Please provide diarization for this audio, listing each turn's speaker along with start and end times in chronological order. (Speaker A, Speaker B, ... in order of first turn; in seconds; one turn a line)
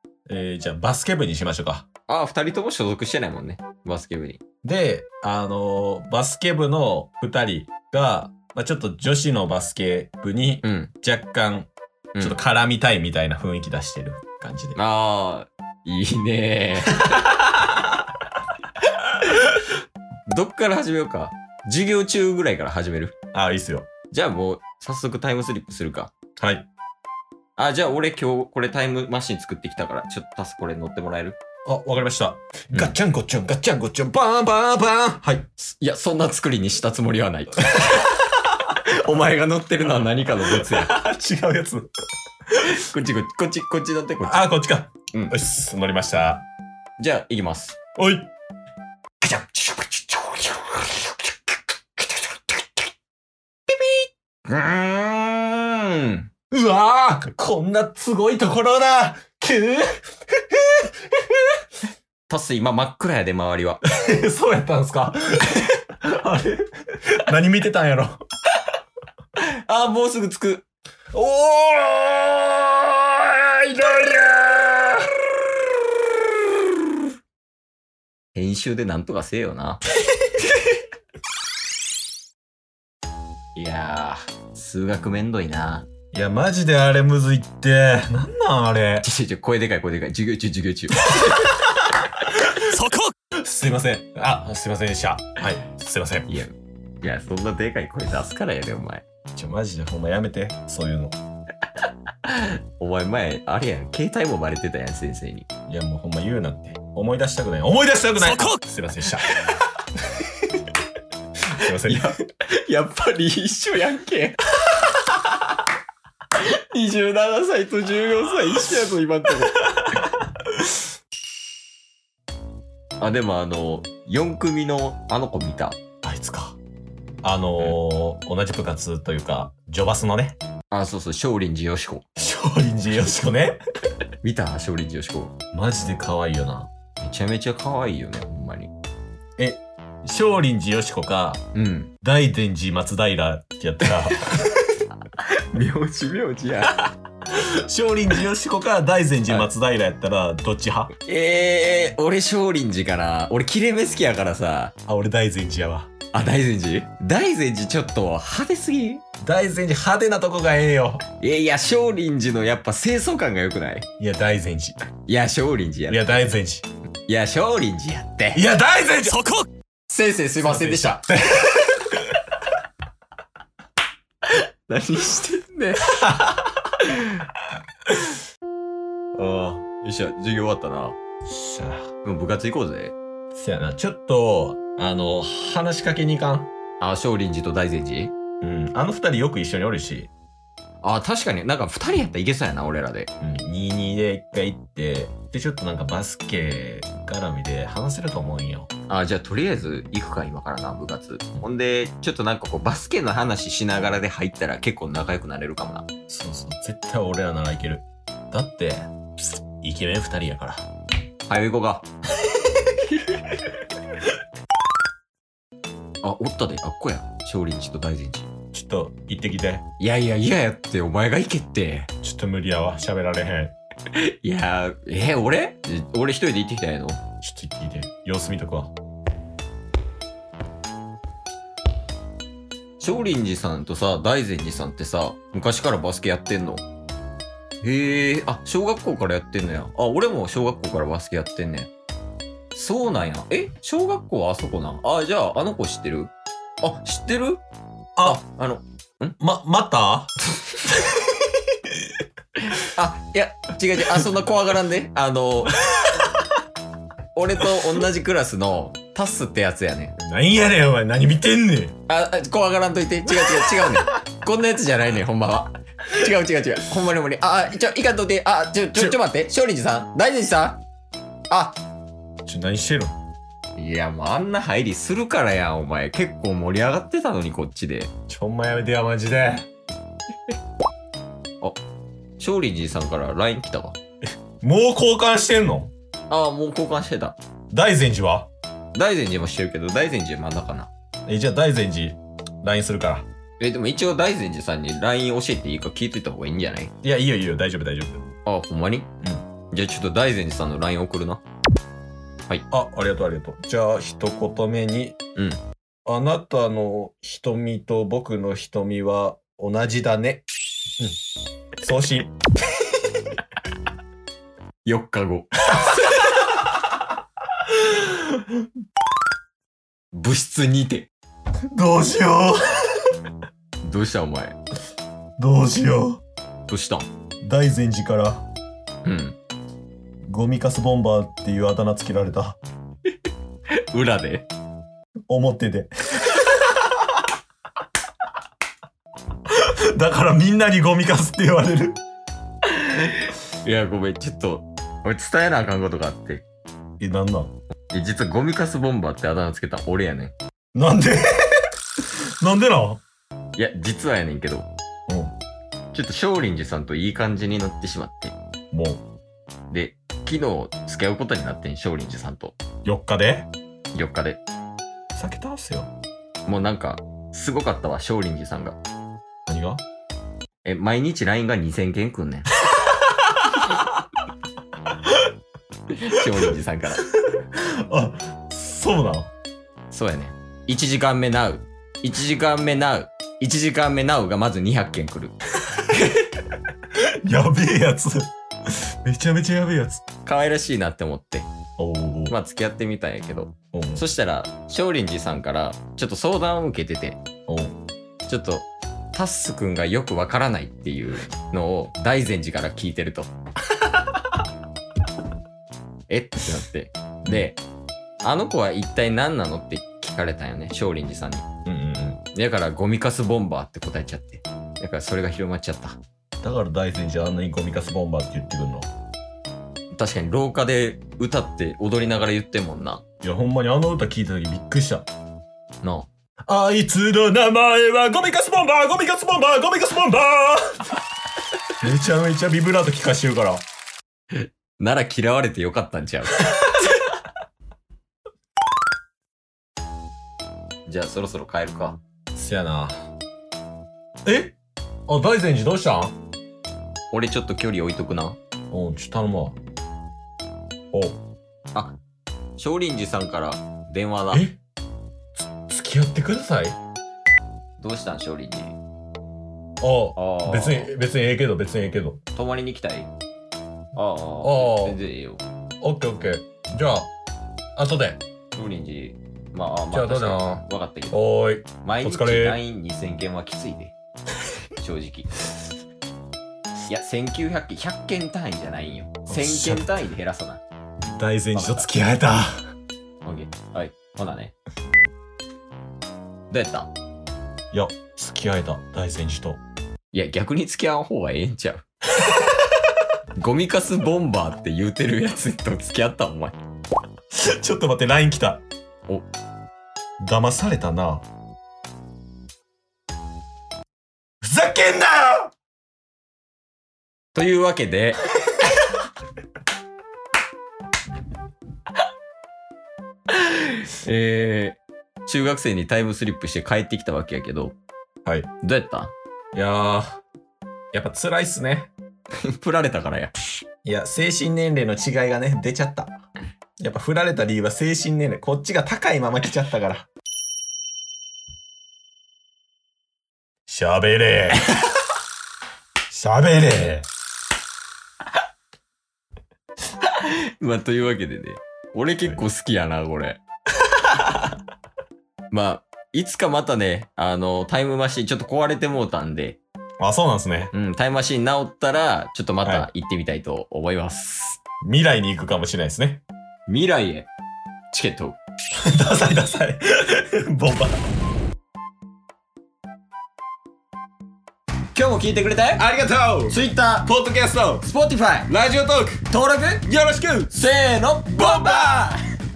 Speaker A: 0.3-1.9
Speaker B: 2.1-4.4
Speaker A: 4.6-14.8
Speaker B: 10.6-10.9
Speaker B: 14.8-17.9
Speaker B: 19.1-19.6
Speaker B: 20.3-23.1
Speaker A: 23.3-23.9
Speaker B: 24.1-26.1
Speaker A: 26.4-26.7
Speaker B: 27.6-31.4
Speaker A: 31.6-35.5
Speaker B: 35.6-41.0
Speaker A: 37.8-38.0
Speaker A: 40.5-41.9
Speaker A: 42.5-42.8
Speaker B: 42.6-44.5
Speaker A: 44.2-46.5
Speaker B: 47.0-47.8
Speaker A: 48.0-48.3
Speaker A: 49.2-50.9
Speaker B: 52.0-52.3
Speaker B: 54.5-56.3
Speaker A: 56.5-61.6
Speaker B: 62.3-63.8
Speaker A: 63.9-68.2
Speaker B: 69.4-70.7
Speaker A: 71.1-75.2
Speaker A: 76.0-76.7
Speaker B: 78.3-79.8
Speaker B: 83.5-85.9
Speaker A: 86.1-89.1
Speaker B: 89.0-91.5
Speaker A: 91.1-96.3
Speaker B: 96.3-99.0
Speaker A: 99.3-101.2
Speaker B: 101.8-105.5
Speaker A: 105.7-109.3
Speaker A: 110.2-110.6
Speaker A: 111.5-112.1
Speaker B: 111.7-114.4
Speaker B: 116.3-119.8
Speaker A: 119.6-120.8
Speaker B: 123.0-125.8
Speaker A: 126.0-126.6
Speaker A: 127.2-130.4
Speaker B: 130.7-132.0
Speaker A: 132.2-133.6
Speaker B: 134.2-135.3
Speaker A: 135.5-136.7
Speaker B: 137.0-138.7
Speaker A: 139.4-141.4
Speaker B: 141.5-141.9
Speaker A: 142.0-144.8
Speaker B: 145.1-146.9
Speaker A: 147.3-150.9
Speaker B: 151.1-154.7
Speaker A: 154.9-156.0
Speaker B: 156.1-159.0
Speaker A: 159.2-161.0
Speaker B: 161.2-163.9
Speaker A: 164.0-164.8
Speaker B: 165.1-166.1
Speaker A: 165.9-166.7
Speaker B: 167.1-168.4
Speaker A: 168.3-169.5
Speaker B: 169.9-171.1
Speaker A: 170.4-172.2
Speaker B: 174.2-176.0
Speaker A: 175.8-176.5
Speaker B: 176.8-177.3
Speaker B: 179.2-181.0
Speaker A: 181.3-181.9
Speaker B: 182.0-182.9
Speaker A: 183.3-186.5
Speaker B: 186.8-188.1
Speaker A: 188.4-190.1
Speaker B: 190.8-193.1
Speaker A: 193.2-198.7
Speaker B: 198.9-205.8
Speaker A: 206.1-210.7
Speaker B: 211.3-211.9
Speaker B: 212.8-213.2
Speaker B: 216.0-218.3
Speaker A: 218.5-219.6
Speaker B: 219.8-221.9
Speaker A: 222.0-223.5
Speaker B: 223.9-227.0
Speaker A: 227.2-228.7
Speaker B: 232.8-236.7
Speaker B: 237.6-241.7
Speaker B: 242.5-247.4
Speaker A: 248.0-248.2
Speaker B: 248.0-249.2
Speaker A: 249.2-251.9
Speaker B: 252.5-255.6
Speaker A: 255.7-256.1
Speaker B: 257.1-260.0
Speaker A: 260.0-261.7
Speaker B: 261.9-270.6
Speaker A: 263.3-263.8
Speaker B: 271.3-271.6
Speaker A: 272.2-273.0
Speaker B: 273.6-277.9
Speaker A: 278.1-279.5
Speaker B: 282.2-283.8
Speaker A: 284.4-285.7
Speaker B: 286.1-287.2
Speaker A: 287.5-288.3
Speaker B: 288.8-290.7
Speaker A: 291.1-293.1
Speaker B: 293.4-296.7
Speaker A: 296.8-298.1
Speaker B: 298.2-298.9
Speaker B: 299.5-301.2
Speaker A: 302.5-305.0
Speaker B: 305.1-305.4
Speaker A: 305.9-310.2
Speaker A: 311.6-312.1
Speaker B: 314.6-316.1
Speaker A: 315.5-315.9
Speaker A: 317.5-318.4
Speaker B: 319.9-320.9
Speaker A: 321.5-322.9
Speaker B: 323.6-324.4
Speaker A: 325.2-326.0
Speaker B: 326.5-326.9
Speaker A: 327.2-328.2
Speaker B: 328.9-329.1
Speaker A: 330.0-332.4
Speaker B: 333.5-334.3
Speaker A: 335.1-336.7
Speaker A: 339.3-341.8
Speaker B: 342.4-346.2
Speaker A: 346.8-347.3
Speaker B: 347.7-350.1
Speaker A: 350.5-351.5
Speaker A: 352.2-352.8
Speaker B: 353.4-354.5
Speaker A: 354.9-355.1
Speaker B: 355.7-358.1
Speaker A: 358.5-358.8
Speaker B: 359.5-362.4
Speaker A: 362.6-363.3
Speaker B: 363.7-364.2
Speaker A: 364.9-365.7
Speaker B: 366.2-368.6
Speaker A: 369.3-369.6
Speaker B: 370.4-372.3
Speaker A: 372.5-373.7
Speaker B: 375.7-376.9
Speaker A: 377.1-379.1
Speaker B: 379.7-385.1
Speaker A: 385.5-386.1
Speaker A: 386.7-389.8
Speaker B: 390.1-391.3
Speaker A: 391.6-392.2
Speaker B: 392.1-397.0
Speaker A: 393.5-393.9
Speaker A: 397.3-397.6
Speaker B: 398.1-403.1
Speaker B: 405.9-407.4
Speaker B: 408.0-411.2
Speaker A: 411.4-412.0
Speaker B: 412.1-415.8
Speaker A: 416.2-418.7
Speaker B: 419.7-422.8
Speaker A: 423.0-424.9
Speaker B: 425.6-425.9
Speaker A: 426.2-430.8
Speaker A: 431.6-433.4
Speaker B: 434.1-436.6
Speaker B: 440.7-441.8
Speaker A: 442.1-442.9
Speaker A: 444.1-444.4
Speaker A: 444.9-446.0
Speaker B: 446.9-448.2
Speaker A: 448.5-449.4
Speaker A: 450.7-451.0
Speaker B: 452.4-454.3
Speaker A: 454.1-454.4
Speaker A: 455.2-456.6
Speaker B: 457.6-458.6
Speaker A: 459.6-462.0
Speaker B: 460.0-460.7
Speaker B: 462.1-462.9
Speaker B: 463.8-465.2
Speaker A: 464.2-464.8
Speaker A: 465.6-466.9
Speaker A: 467.6-468.0
Speaker B: 468.4-471.0
Speaker A: 469.7-472.4
Speaker B: 471.6-473.8
Speaker B: 474.6-475.3
Speaker B: 476.7-480.4
Speaker A: 479.1-479.9
Speaker A: 480.9-482.5
Speaker B: 481.3-481.7
Speaker B: 483.0-484.4
Speaker B: 486.3-486.7
Speaker A: 487.5-489.4
Speaker B: 489.9-491.6
Speaker B: 493.2-496.4
Speaker A: 497.1-498.4
Speaker A: 500.0-501.1
Speaker A: 504.2-505.3
Speaker B: 507.1-508.1
Speaker B: 513.1-517.6
Speaker B: 518.4-518.9
Speaker A: 519.3-520.0
Speaker A: 520.7-521.7
Speaker B: 522.2-523.1
Speaker A: 523.6-526.0
Speaker A: 526.6-529.9
Speaker A: 533.5-534.6
Speaker A: 535.9-536.9
Speaker B: 539.8-543.2
Speaker B: 545.3-549.4
Speaker A: 549.8-550.5
Speaker B: 550.5-554.4
Speaker A: 554.6-556.0
Speaker B: 556.5-557.1
Speaker B: 557.7-558.2
Speaker A: 558.6-560.8
Speaker B: 564.7-565.6
Speaker A: 565.6-567.7
Speaker B: 566.3-566.9
Speaker B: 567.6-568.3
Speaker A: 568.3-569.1
Speaker B: 569.1-569.7
Speaker A: 569.6-570.3
Speaker B: 570.3-572.0
Speaker A: 571.1-571.9